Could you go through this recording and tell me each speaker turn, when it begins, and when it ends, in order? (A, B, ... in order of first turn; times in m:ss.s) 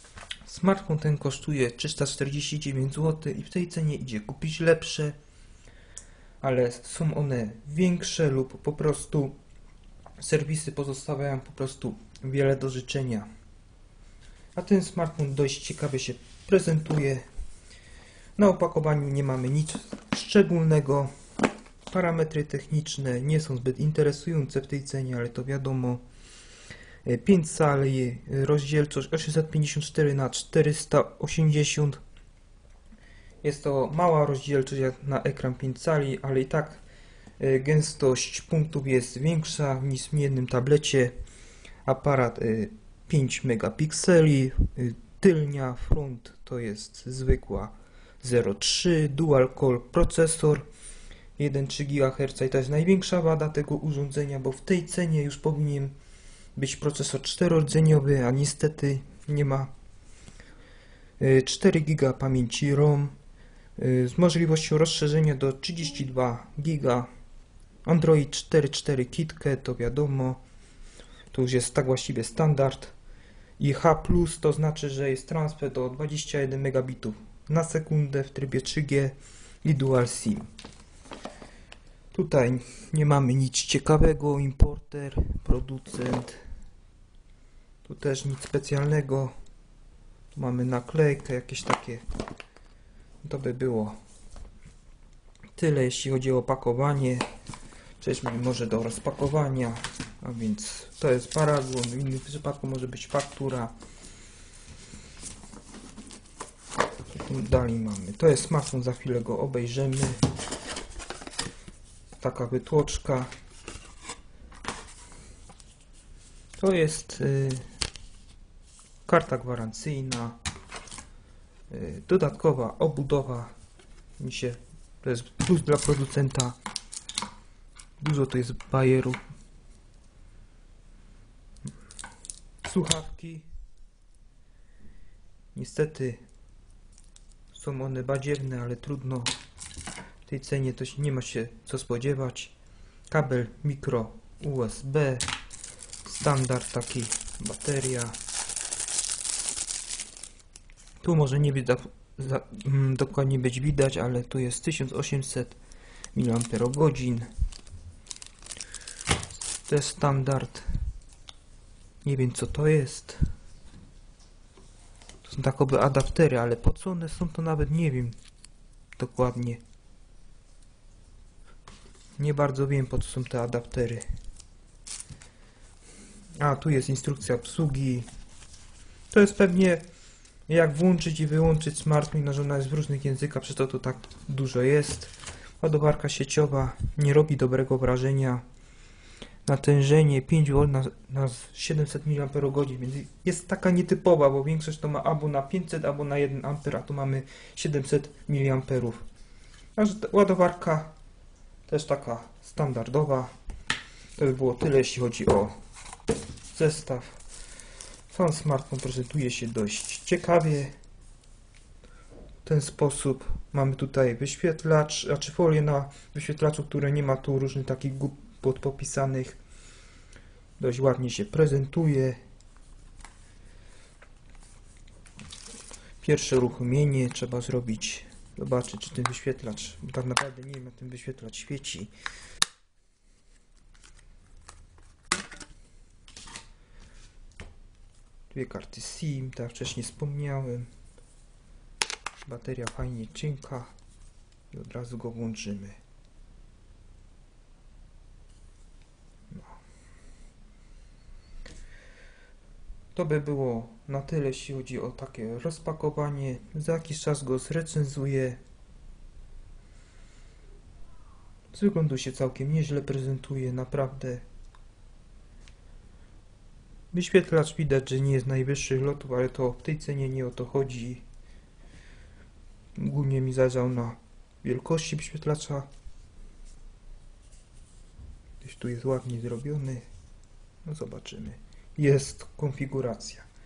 0:00.4-0:05.2 A
0:06.4-0:09.4 A
0:10.2-0:13.3 A
0:14.6-0:17.2 A
0:18.4-0:21.1 A
0:21.9-0:26.0 A
0:27.0-0:32.0 A
0:33.4-0:36.8 A
0:37.4-0:41.2 A
0:41.8-0:50.7 A
0:51.4-0:56.0 A
0:56.6-0:59.7 A
1:01.2-1:03.2 A
1:03.8-1:07.1 A
1:07.8-1:10.4 A
1:11.3-1:12.9 A
1:13.6-1:20.5 A
1:22.1-1:26.4 A
1:27.8-1:29.3 A
1:30.3-1:32.0 A
1:33.2-1:34.0 A
1:35.6-1:37.2 A
1:38.0-1:43.7 A
1:47.1-1:50.2 A
1:52.2-1:53.3 A
1:56.6-1:57.6 A
1:59.1-2:00.4 A
2:01.7-2:03.5 A
2:04.2-2:06.6 A
2:08.0-2:09.2 A
2:12.6-2:13.5 A
2:15.6-2:16.2 A
2:17.5-2:19.4 A
2:20.3-2:22.5 A
2:23.1-2:25.3 A
2:26.0-2:28.2 A
2:31.0-2:35.6 A
2:36.1-2:37.3 A
2:39.6-2:40.7 A
2:42.0-2:43.2 A
2:45.2-2:48.2 A
2:49.0-2:49.6 A
2:52.2-2:54.0 A
2:56.4-2:58.1 A
2:59.1-2:59.8 A
3:00.5-3:08.4 A
3:09.4-3:19.0 A
3:19.8-3:21.0 A
3:21.7-3:23.3 A
3:24.2-3:25.6 A
3:26.5-3:27.2 A
3:28.1-3:30.7 A
3:32.4-3:39.4 A
3:40.6-3:42.2 A
3:46.0-3:51.9 A
3:58.3-4:00.7 A
4:02.2-4:03.7 A
4:04.5-4:05.8 A
4:13.0-4:18.4 A
4:21.5-4:24.2 A
4:26.9-4:31.0 A
4:32.8-4:35.7 A
4:38.4-4:39.9 A
4:40.6-4:43.3 A